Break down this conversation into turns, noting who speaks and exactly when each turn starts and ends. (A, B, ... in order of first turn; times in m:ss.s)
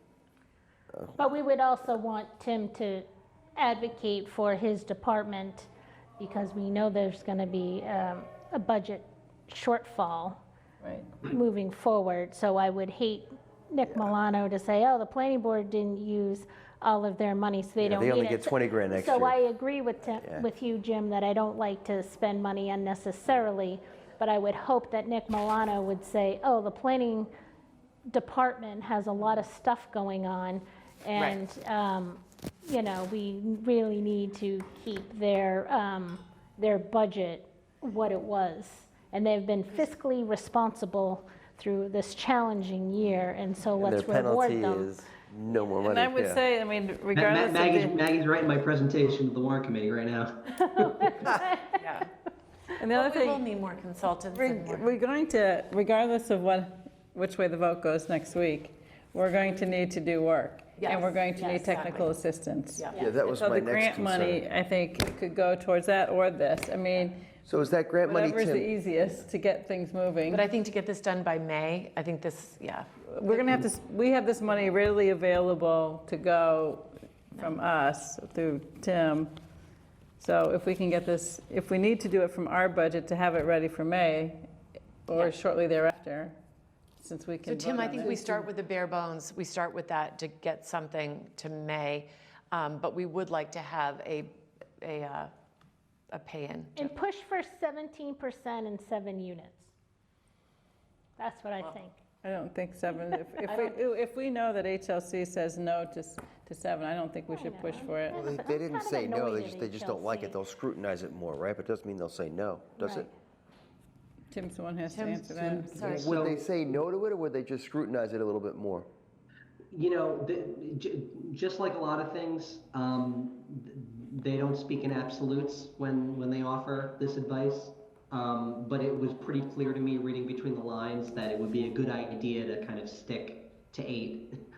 0:00.9-0:01.2 A
0:01.2-0:03.0 B
0:03.6-0:05.7 B
0:06.2-0:10.4 B
0:10.8-0:11.1 C
0:11.2-0:27.3 B
0:17.8-0:19.4 A
0:28.1-0:44.9 B
0:43.8-0:46.4 A
0:45.8-0:47.9 C
0:47.1-0:51.1 D
0:50.7-0:50.9 C
0:51.0-0:51.7 B
0:51.2-0:52.1 E
0:52.8-0:53.4 C
0:52.9-0:54.9 E
0:54.3-1:07.2 C
1:00.8-1:02.1 E
1:02.8-1:03.0 E
1:02.9-1:04.4 A
1:07.4-1:09.1 A
1:08.0-1:10.4 C
1:10.3-1:13.6 E
1:13.1-1:19.3 C
1:20.2-1:24.4 C
1:25.0-1:26.3 C
1:27.0-1:28.4 C
1:27.4-1:35.3 E
1:36.1-1:36.9 E
1:36.8-1:39.7 B
1:41.2-1:42.0 B
1:42.2-1:48.1 C
1:43.4-1:43.8 E
1:47.3-1:50.4 B
1:48.1-1:53.1 A
1:52.8-1:53.1 B
1:54.3-1:55.8 C
1:54.9-1:56.1 E
1:55.8-1:56.4 D
1:55.8-1:58.9 A
1:59.7-2:14.3 D